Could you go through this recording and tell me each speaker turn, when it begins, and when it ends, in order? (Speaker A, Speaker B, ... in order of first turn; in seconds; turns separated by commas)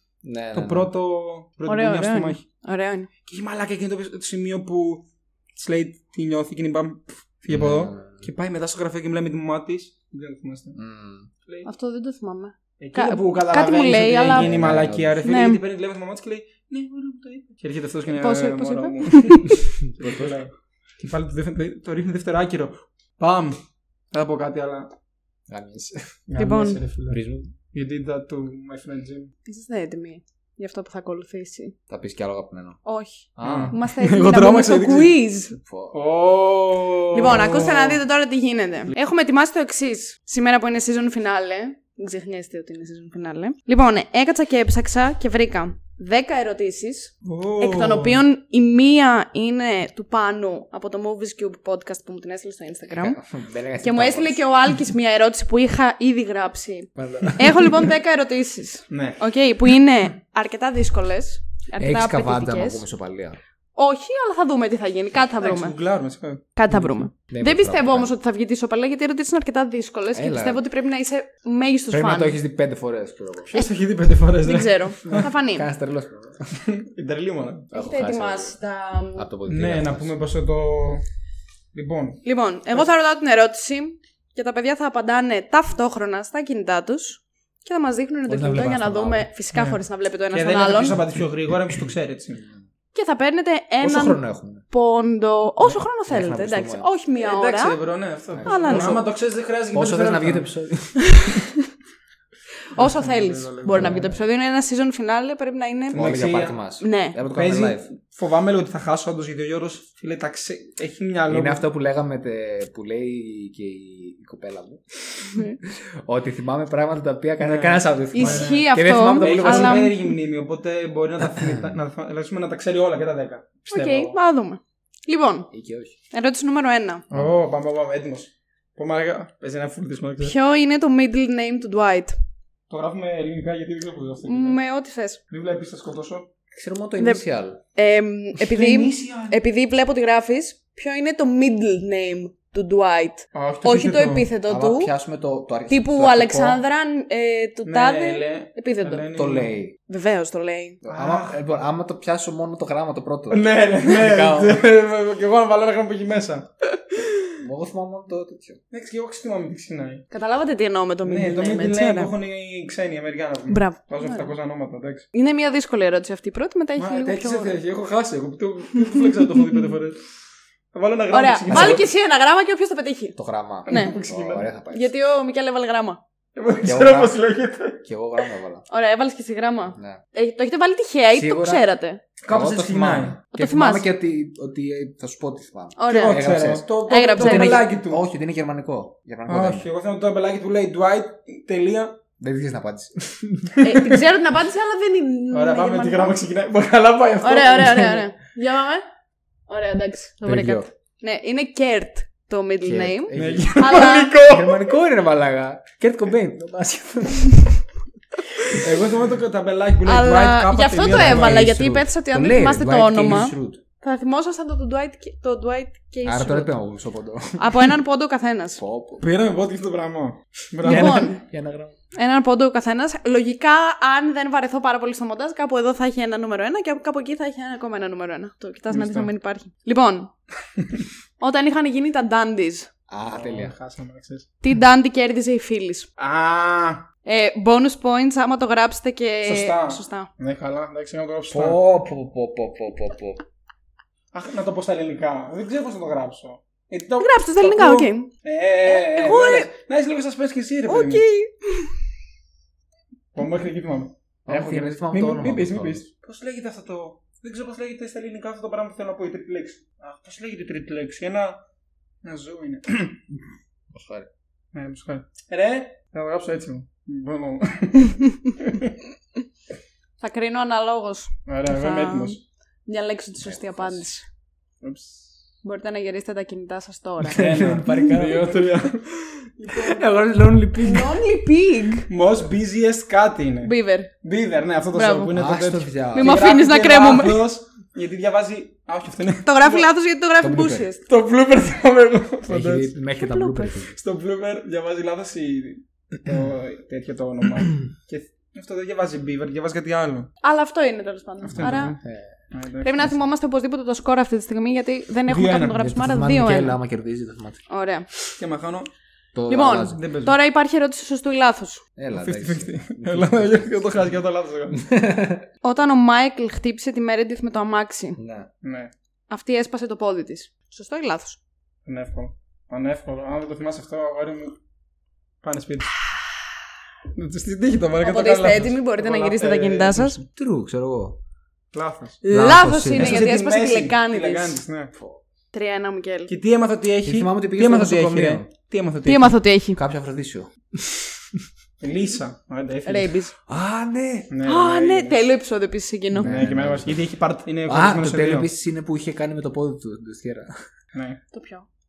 Speaker A: 0.2-0.9, Speaker B: 0.5-2.4, Speaker C: 1.6-3.1, Speaker B: 3.2-10.8, Speaker A: 7.5-8.2, Speaker A: 10.7-11.3, Speaker C: 11.6-14.5, Speaker B: 12.8-23.6, Speaker A: 14.3-15.2, Speaker C: 15.2-15.6, Speaker C: 18.1-19.6, Speaker A: 20.0-20.3, Speaker B: 24.1-24.9, Speaker A: 25.5-26.1, Speaker B: 26.3-27.2, Speaker C: 26.4-26.8, Speaker A: 27.1-27.5, Speaker B: 27.7-29.3, Speaker C: 29.4-31.7, Speaker A: 31.9-32.8, Speaker C: 32.8-35.5, Speaker A: 33.4-33.8, Speaker B: 33.4-35.2, Speaker A: 35.6-35.9, Speaker B: 35.9-38.0, Speaker C: 37.1-53.2, Speaker B: 47.2-48.2, Speaker A: 52.9-54.4, Speaker C: 53.8-62.8, Speaker A: 57.0-57.9, Speaker B: 58.9-59.2, Speaker A: 61.8-63.4, Speaker C: 63.8-65.7, Speaker B: 65.4-66.4, Speaker C: 66.5-72.3, Speaker A: 66.7-68.1, Speaker A: 70.1-70.6, Speaker A: 71.9-73.5, Speaker B: 73.5-75.3, Speaker C: 74.4-75.7, Speaker A: 75.1-76.6, Speaker B: 76.7-77.7, Speaker A: 77.7-78.6, Speaker C: 77.7-79.2, Speaker A: 79.1-80.1, Speaker B: 79.5-81.0, Speaker B: 81.7-82.9, Speaker C: 82.2-91.0, Speaker A: 88.3-89.3, Speaker B: 89.5-89.8, Speaker B: 90.3-92.4, Speaker C: 92.9-97.8, Speaker A: 93.8-94.6, Speaker A: 95.6-96.9, Speaker B: 97.2-100.5, Speaker A: 98.3-99.0, Speaker C: 98.4-99.0, Speaker A: 99.7-101.3, Speaker C: 101.1-101.4, Speaker C: 102.7-106.0, Speaker B: 102.8-104.0, Speaker A: 103.7-104.2, Speaker B: 105.9-106.6, Speaker A: 105.9-107.9, Speaker C: 106.8-107.2, Speaker B: 107.2-111.6, Speaker A: 111.3-119.9, Speaker C: 115.3-115.6, Speaker B: 117.4-124.2, Speaker C: 118.1-120.0, Speaker A: 121.2-121.7, Speaker C: 123.7-125.5, Speaker A: 125.5-126.0, Speaker C: 126.1-127.0, Speaker B: 127.1-130.3, Speaker C: 130.2-132.2, Speaker B: 132.7-134.6, Speaker C: 134.3-135.2, Speaker B: 135.3-136.3, Speaker A: 136.5-137.6, Speaker C: 137.7-144.9, Speaker B: 138.4-139.4, Speaker B: 143.3-144.3, Speaker A: 144.5-146.6, Speaker C: 145.7-149.0, Speaker B: 147.7-149.5, Speaker A: 149.1-149.7, Speaker C: 149.9-150.8, Speaker A: 150.8-154.6, Speaker B: 150.8-151.4, Speaker B: 153.3-156.5, Speaker A: 157.4-158.6, Speaker B: 158.7-160.0, Speaker C: 160.1-162.1, Speaker B: 161.0-165.0, Speaker C: 163.5-164.3, Speaker C: 165.1-167.6, Speaker B: 166.8-170.0, Speaker B: 170.7-171.9, Speaker C: 171.1-173.2, Speaker A: 171.5-171.8, Speaker A: 173.2-174.9, Speaker B: 173.7-174.5, Speaker C: 173.7-173.9, Speaker C: 174.7-176.0, Speaker B: 176.3-177.8, Speaker A: 176.6-177.2, Speaker A: 177.8-178.6, Speaker C: 178.7-182.0, Speaker A: 179.7-180.0, Speaker A: 181.1-181.6, Speaker B: 182.2-183.2, Speaker A: 182.3-189.7, Speaker C: 183.3-183.9, Speaker C: 185.8-186.2, Speaker B: 185.9-188.0, Speaker C: 186.9-187.7, Speaker B: 189.3-192.0, Speaker A: 192.2-193.6, Speaker C: 193.6-196.2, Speaker B: 193.6-194.0, Speaker B: 195.3-198.1, Speaker C: 197.2-198.8, Speaker C: 199.5-204.2, Speaker A: 200.2-200.7, Speaker A: 202.6-207.6, Speaker B: 203.1-204.7, Speaker B: 208.5-211.5, Speaker C: 209.8-216.5, Speaker A: 210.8-213.6, Speaker A: 216.0-217.8, Speaker C: 217.4-218.6, Speaker A: 218.6-219.0, Speaker B: 219.0-221.1, Speaker C: 220.6-221.2, Speaker A: 220.6-221.8, Speaker C: 221.9-230.1, Speaker B: 228.7-229.1, Speaker C: 231.2-232.7, Speaker A: 232.9-233.5, Speaker B: 233.1-234.3, Speaker C: 234.4-235.9, Speaker B: 236.0-236.8, Speaker C: 237.0-240.1, Speaker B: 239.2-241.6, Speaker A: 241.3-243.2, Speaker B: 244.1-251.0, Speaker C: 247.0-248.1, Speaker C: 248.7-249.5, Speaker C: 250.7-251.7, Speaker B: 253.1-261.4, Speaker A: 254.2-255.8, Speaker B: 262.0-263.0, Speaker A: 263.7-264.1, Speaker B: 264.5-268.7, Speaker C: 270.0-274.0, Speaker B: 271.3-272.2, Speaker A: 273.2-273.8, Speaker B: 274.6-275.1, Speaker C: 275.4-277.8, Speaker A: 277.1-278.4, Speaker B: 277.1-280.7, Speaker C: 279.4-279.8, Speaker A: 279.6-280.9, Speaker C: 280.6-281.9, Speaker B: 281.9-289.7, Speaker C: 283.4-283.9, Speaker C: 284.7-285.1, Speaker A: 285.1-286.3, Speaker C: 285.9-287.2, Speaker C: 289.2-290.8, Speaker A: 290.2-290.7, Speaker B: 290.9-292.7, Speaker A: 292.3-293.8, Speaker C: 292.9-293.6, Speaker B: 293.7-300.1, Speaker C: 300.2-301.8, Speaker B: 301.2-301.8, Speaker A: 301.4-302.2, Speaker B: 302.3-302.9, Speaker C: 302.6-306.6, Speaker B: 305.1-305.6, Speaker A: 305.6-307.4, Speaker C: 307.5-307.9, Speaker B: 308.2-308.7, Speaker A: 309.1-309.8, Speaker C: 309.3-311.6, Speaker B: 309.7-310.1, Speaker A: 311.8-313.9, Speaker B: 311.9-314.6, Speaker A: 314.5-315.2, Speaker C: 315.4-318.0, Speaker A: 318.0-318.3, Speaker B: 318.4-318.7, Speaker C: 319.1-321.2, Speaker B: 321.6-324.4, Speaker B: 325.2-325.7, Speaker B: 326.9-330.1, Speaker C: 327.8-330.0, Speaker A: 330.1-331.0, Speaker B: 331.5-334.7, Speaker C: 332.0-334.4, Speaker A: 332.1-333.0, Speaker A: 334.7-335.0, Speaker C: 335.3-336.1, Speaker B: 336.1-339.1, Speaker A: 336.8-338.3, Speaker C: 338.8-339.6, Speaker A: 339.5-341.2, Speaker B: 341.6-343.0, Speaker C: 342.6-343.1, Speaker A: 343.3-344.1, Speaker B: 344.1-345.1, Speaker C: 344.2-346.1, Speaker A: 345.9-346.8, Speaker B: 346.0-348.3, Speaker A: 347.4-350.3, Speaker B: 350.7-351.0, Speaker C: 351.1-351.4